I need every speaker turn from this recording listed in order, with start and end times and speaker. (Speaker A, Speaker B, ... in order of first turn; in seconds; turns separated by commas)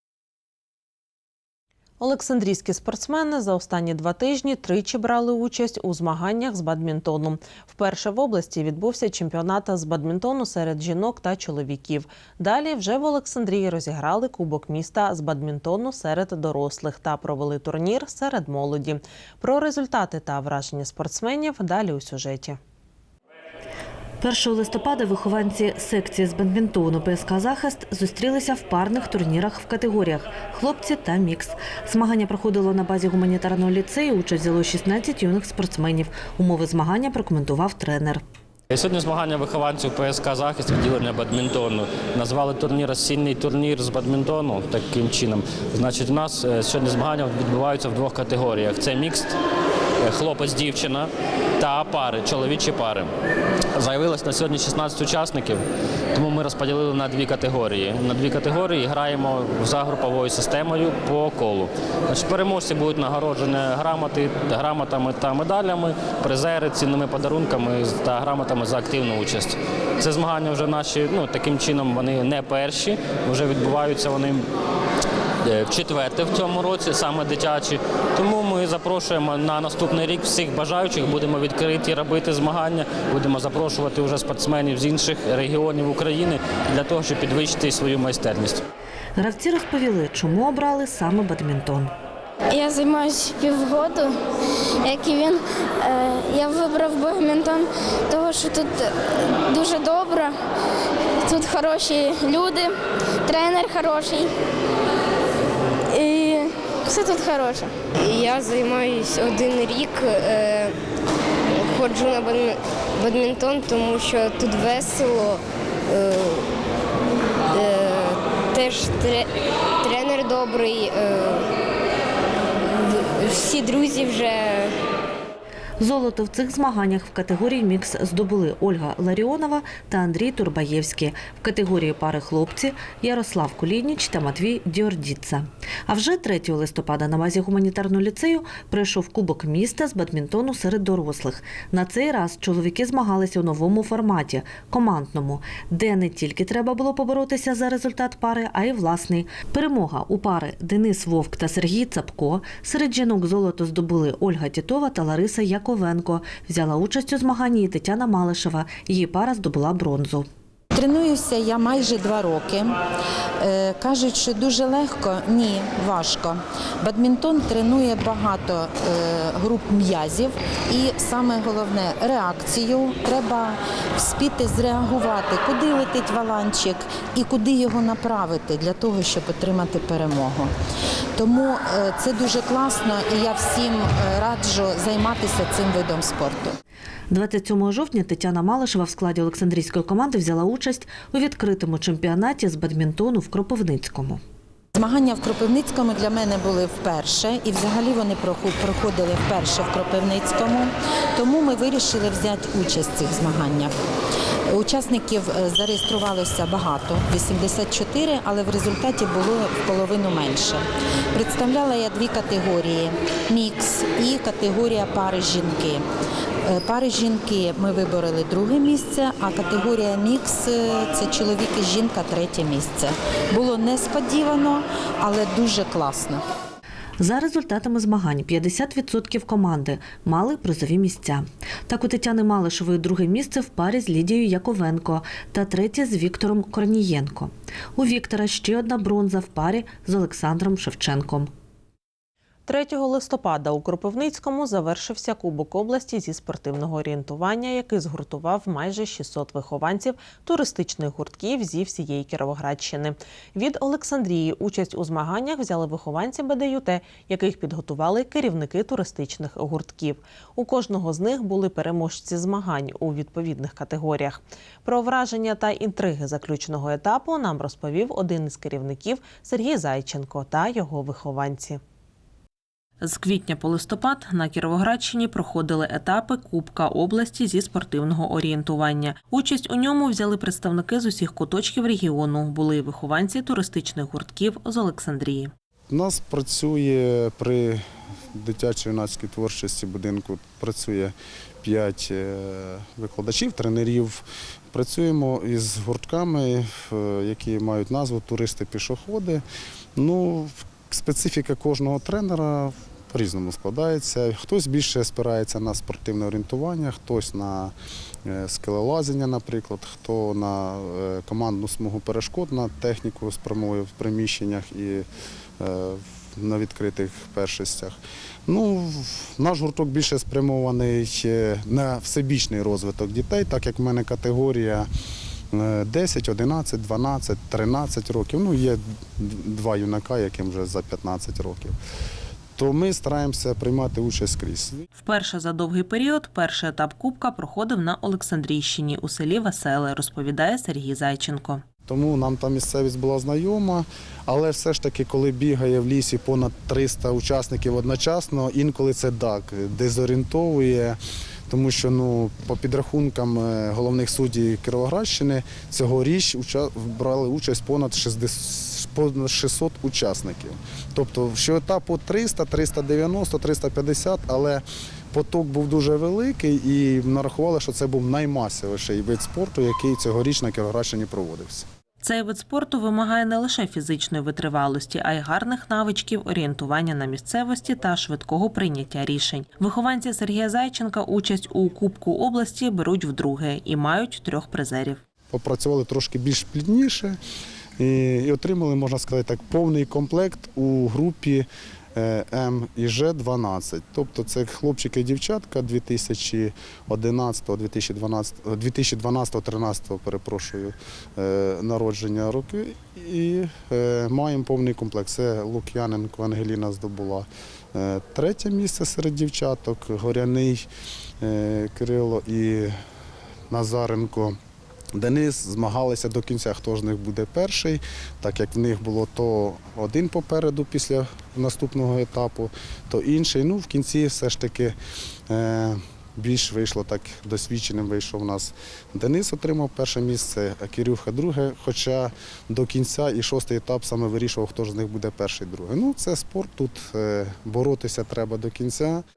Speaker A: 2.0-22.6, Speaker B: 24.2-38.2, Speaker C: 38.7-49.3, Speaker C: 50.0-53.1, Speaker C: 53.8-74.4, Speaker C: 75.4-88.6, Speaker B: 89.2-91.9, Speaker D: 92.5-94.1, Speaker D: 94.8-98.9, Speaker D: 99.5-100.3, Speaker D: 101.2-104.3, Speaker D: 105.9-107.8, Speaker E: 108.0-110.8, Speaker E: 111.6-116.5, Speaker E: 117.5-119.3, Speaker E: 119.8-121.5, Speaker E: 122.6-124.7, Speaker B: 125.8-160.3, Speaker F: 160.7-162.8, Speaker F: 163.4-180.5, Speaker F: 181.2-186.5, Speaker B: 187.1-194.2, Speaker F: 194.7-203.7, Speaker F: 204.5-215.8, Speaker F: 216.5-226.2, Speaker B: 227.0-241.3, Speaker A: 242.4-271.6, Speaker A: 272.8-285.3, Speaker G: 285.7-287.6, Speaker G: 288.1-299.2, Speaker G: 299.8-307.5, Speaker G: 308.1-314.9, Speaker G: 315.4-324.7, Speaker G: 325.3-331.5, Speaker G: 332.4-334.6, Speaker A: 334.8-341.4, Speaker G: 341.7-350.8, Speaker G: 351.3-371.4, Speaker A: 371.8-384.8, Speaker G: 385.1-387.0, Speaker G: 387.6-410.4, Speaker G: 411.0-412.5, Speaker G: 413.3-414.1, Speaker G: 414.8-424.6, Speaker G: 425.1-438.8